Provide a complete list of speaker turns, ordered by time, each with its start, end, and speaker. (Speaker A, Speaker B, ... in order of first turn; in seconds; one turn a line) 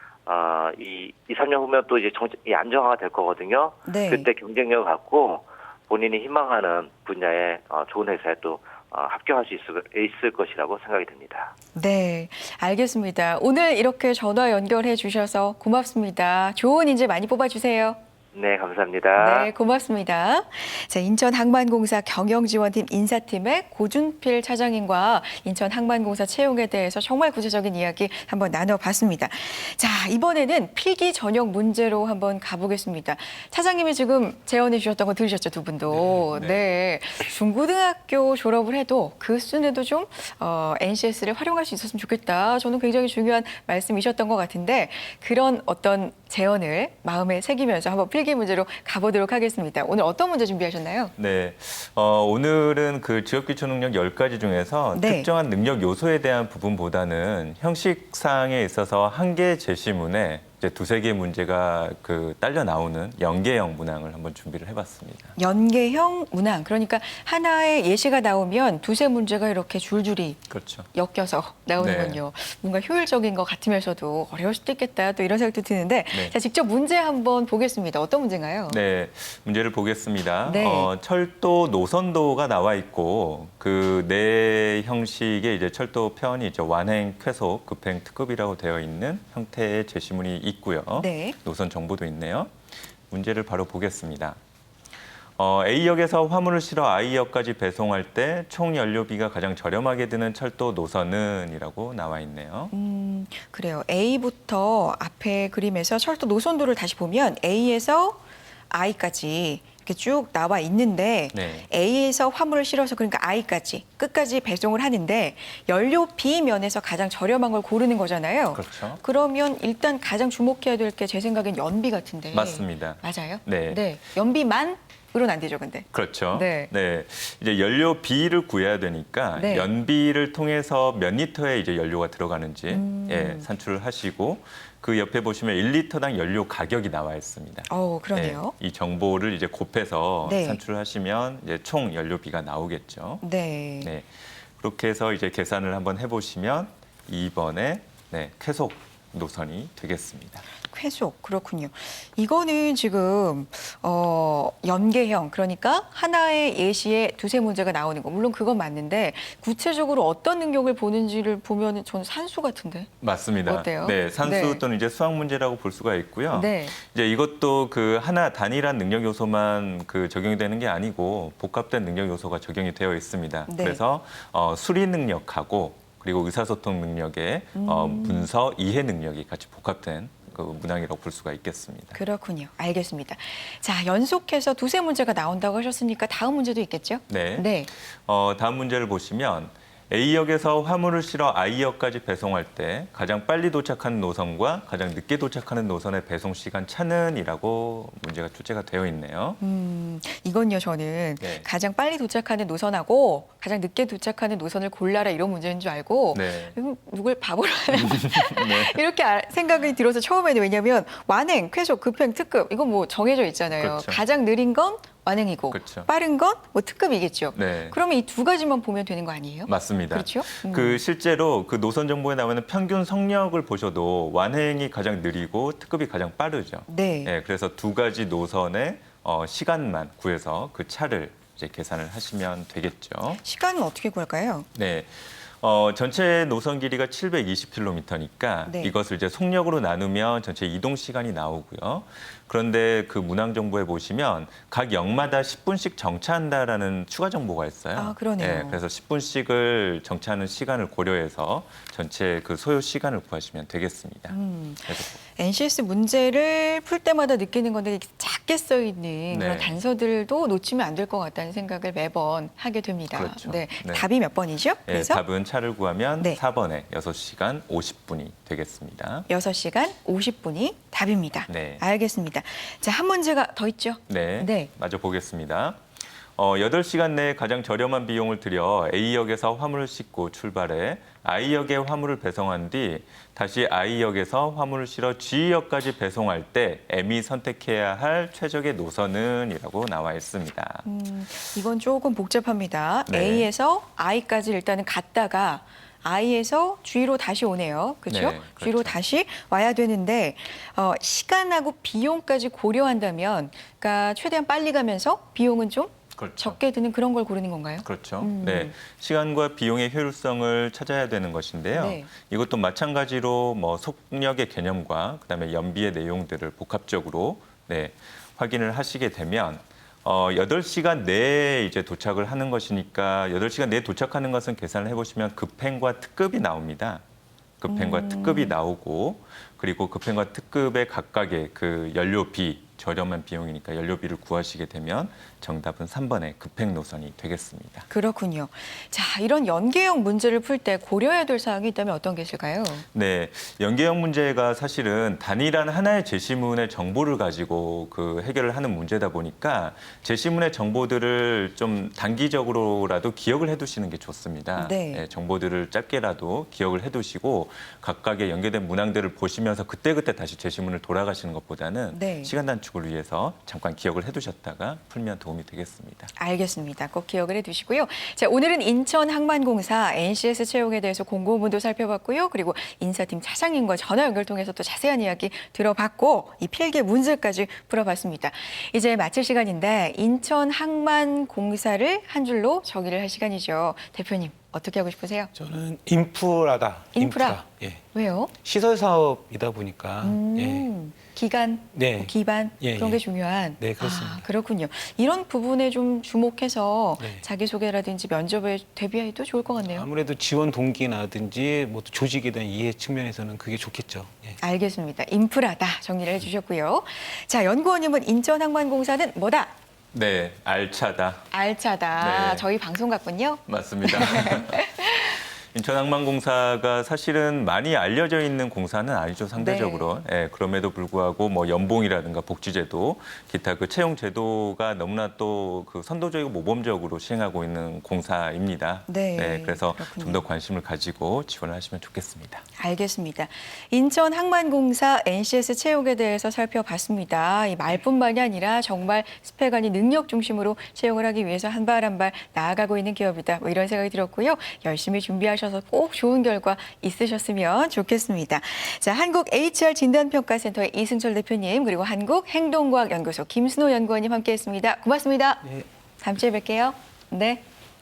Speaker A: 0.3-11.5
Speaker B: 3.9-4.3
Speaker B: 11.8-18.0
Speaker A: 18.3-19.5
Speaker B: 19.2-51.1
Speaker C: 35.9-36.6
Speaker C: 51.2-65.3
Speaker B: 54.9-55.3
Speaker B: 65.4-78.8
Speaker C: 70.5-70.9
Speaker C: 71.8-72.2
Speaker C: 78.7-92.5
Speaker B: 80.5-80.9
Speaker B: 91.0-91.4
Speaker C: 93.1-94.4
Speaker C: 95.4-102.7
Speaker B: 102.7-108.2
Speaker B: 108.7-126.7
Speaker C: 111.3-111.7
Speaker C: 118.5-119.0
Speaker C: 122.3-123.8
Speaker C: 125.9-143.2
Speaker B: 129.3-129.7
Speaker B: 132.7-133.5
Speaker B: 137.7-138.5
Speaker B: 140.2-140.6
Speaker B: 143.2-143.9
Speaker C: 143.8-150.4
Speaker B: 150.7-162.9
Speaker C: 163.0-182.0
Speaker B: 163.5-164.6
Speaker B: 166.3-166.8
Speaker B: 173.5-173.8
Speaker B: 177.6-178.3
Speaker B: 181.9-187.7
Speaker C: 187.1-187.5
Speaker C: 188.1-199.4
Speaker B: 199.4-220.8
Speaker C: 201.2-201.5
Speaker C: 206.1-206.6
Speaker C: 207.7-208.8
Speaker C: 213.6-214.0
Speaker C: 215.5-215.9
Speaker C: 217.3-217.8
Speaker C: 219.5-233.2
Speaker B: 226.7-227.1
Speaker B: 233.2-234.5
Speaker C: 234.6-254.2
Speaker B: 238.5-238.7
Speaker B: 247.8-248.6
Speaker B: 254.1-265.0
Speaker C: 254.7-254.9
Speaker C: 259.1-259.6
Speaker C: 262.9-263.9
Speaker C: 264.7-269.1
Speaker B: 269.1-274.5
Speaker C: 271.3-271.6
Speaker C: 273.9-275.6
Speaker C: 276.2-290.7
Speaker B: 290.6-308.5
Speaker C: 292.9-293.3
Speaker C: 297.9-298.8
Speaker C: 306.0-306.4
Speaker C: 307.6-326.8
Speaker B: 311.5-311.9
Speaker C: 327.4-337.7
Speaker B: 327.5-328.4
Speaker B: 337.7-342.6
Speaker C: 342.7-365.9
Speaker B: 354.4-354.8
Speaker B: 361.7-362.1
Speaker B: 366.0-385.1
Speaker D: 385.1-387.6
Speaker B: 386.8-388.1
Speaker D: 388.2-390.5
Speaker B: 389.8-399.7
Speaker D: 391.5-392.8
Speaker D: 393.4-394.1
Speaker D: 396.8-397.0
Speaker D: 399.5-404.2
Speaker B: 404.2-409.3
Speaker C: 409.7-411.1
Speaker B: 411.1-415.0
Speaker C: 411.8-412.3
Speaker C: 413.3-432.2
Speaker B: 419.2-419.7
Speaker B: 428.7-430.0
Speaker B: 432.4-457.2